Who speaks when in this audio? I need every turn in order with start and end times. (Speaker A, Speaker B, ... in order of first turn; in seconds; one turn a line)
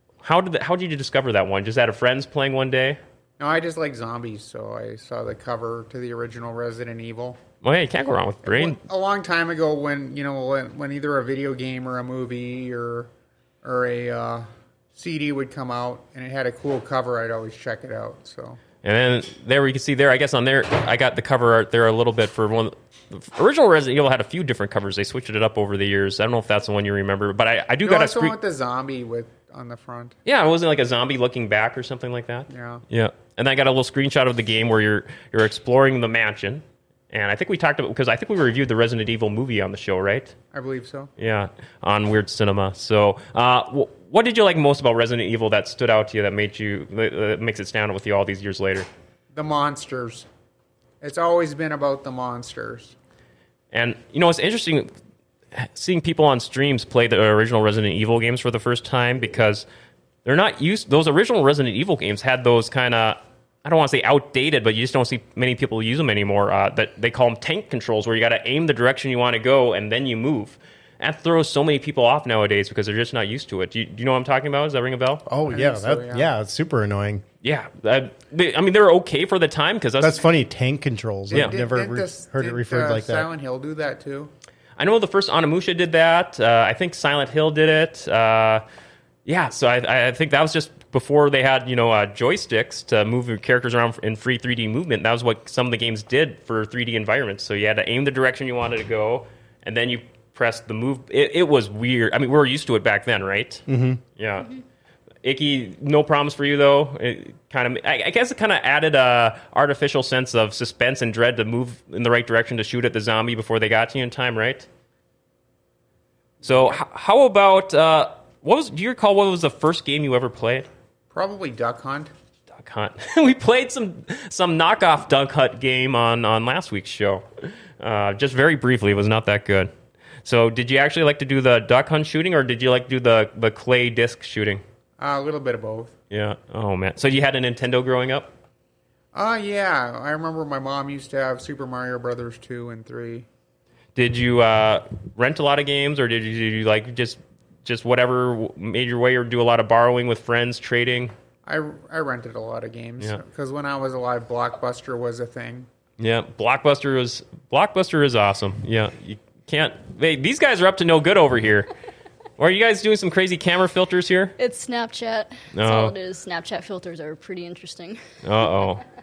Speaker A: 0.2-3.0
Speaker B: 3.4-7.4
Speaker A: 7.6-8.8
Speaker B: 8.4-13.1
Speaker B: 13.6-18.6
Speaker A: 18.8-28.3
Speaker B: 27.8-30.1
Speaker A: 30.2-40.3
Speaker B: 32.5-32.8
Speaker B: 40.5-41.1
Speaker A: 41.2-48.9
Speaker B: 49.3-50.3
Speaker B: 51.0-52.9
Speaker A: 53.7-54.9
Speaker A: 55.5-59.6
Speaker A: 60.2-75.2
Speaker C: 75.2-77.2
Speaker B: 75.5-76.3
Speaker A: 77.4-80.2
Speaker C: 80.0-83.3
Speaker B: 81.3-84.3
Speaker A: 81.3-81.6
Speaker A: 84.8-88.6
Speaker A: 89.2-103.6
Speaker C: 103.7-104.0
Speaker A: 104.2-104.5
Speaker A: 105.2-114.7
Speaker A: 116.4-120.7
Speaker B: 121.1-122.1
Speaker A: 122.5-127.2
Speaker A: 127.8-129.7
Speaker A: 130.2-134.6
Speaker B: 135.0-135.9
Speaker A: 136.1-138.3
Speaker B: 139.1-143.2
Speaker A: 143.9-151.1
Speaker B: 151.4-155.7
Speaker A: 156.0-161.7
Speaker A: 162.4-164.3
Speaker D: 164.4-168.0
Speaker A: 165.5-165.9
Speaker A: 168.2-168.8